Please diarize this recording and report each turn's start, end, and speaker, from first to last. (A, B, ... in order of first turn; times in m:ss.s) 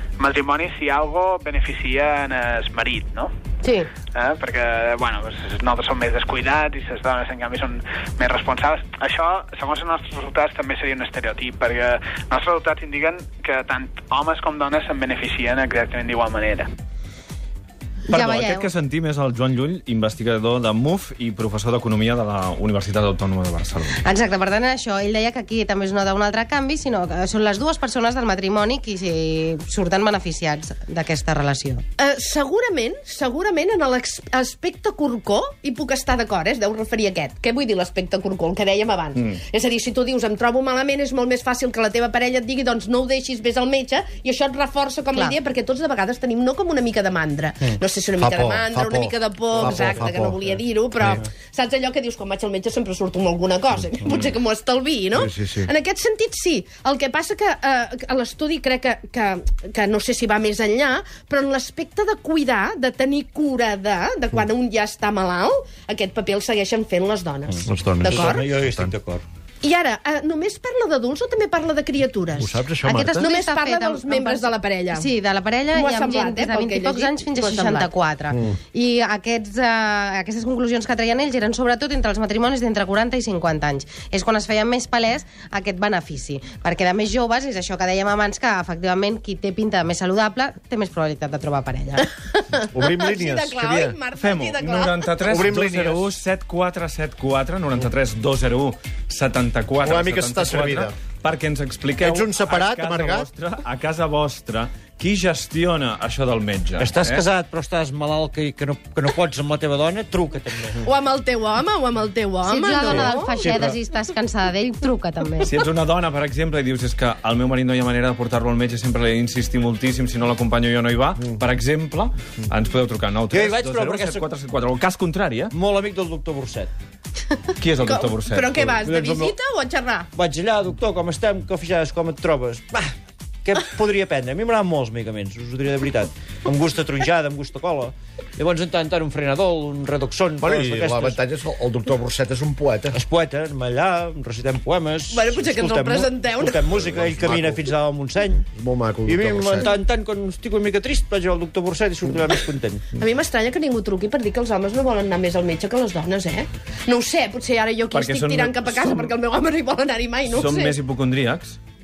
0:00.2-0:03.3 A
0:03.6-0:03.9 B
0:04.1-0:16.7 A
0:18.1-0:24.0 C
0:18.1-0:18.7 B
0:24.0-0:31.8 B
0:32.0-1:08.4 D
0:48.2-0:50.4 E
0:51.0-0:51.2 E
0:55.1-0:55.7 E
1:07.6-1:08.9 E
1:08.0-1:09.2 F
1:09.6-1:15.1 D
1:12.4-1:13.3 E
1:12.8-1:32.1 B
1:15.7-1:17.9 D
1:32.5-1:35.2 D
1:32.7-1:34.0 E
1:34.1-1:47.2 C
1:35.3-1:36.1 E
1:39.8-1:40.9 E
1:42.0-1:43.3 E
1:46.8-1:50.8 F
1:50.8-1:53.6 D
1:52.4-1:55.5 B
1:52.9-1:53.7 F
1:55.4-2:05.5 C
2:03.3-2:04.3 F
2:05.5-2:06.7 F
2:07.6-2:08.6 C
2:07.8-2:10.1 D
2:08.5-2:09.4 F
2:10.1-2:21.2 F
2:20.4-2:23.0 E
2:22.9-2:28.5 F
2:25.1-2:26.7 D
2:26.7-2:27.7 E
2:28.5-2:29.7 E
2:29.0-2:32.9 F
2:33.0-2:40.8 D
2:37.9-2:39.1 C
2:40.3-2:41.6 C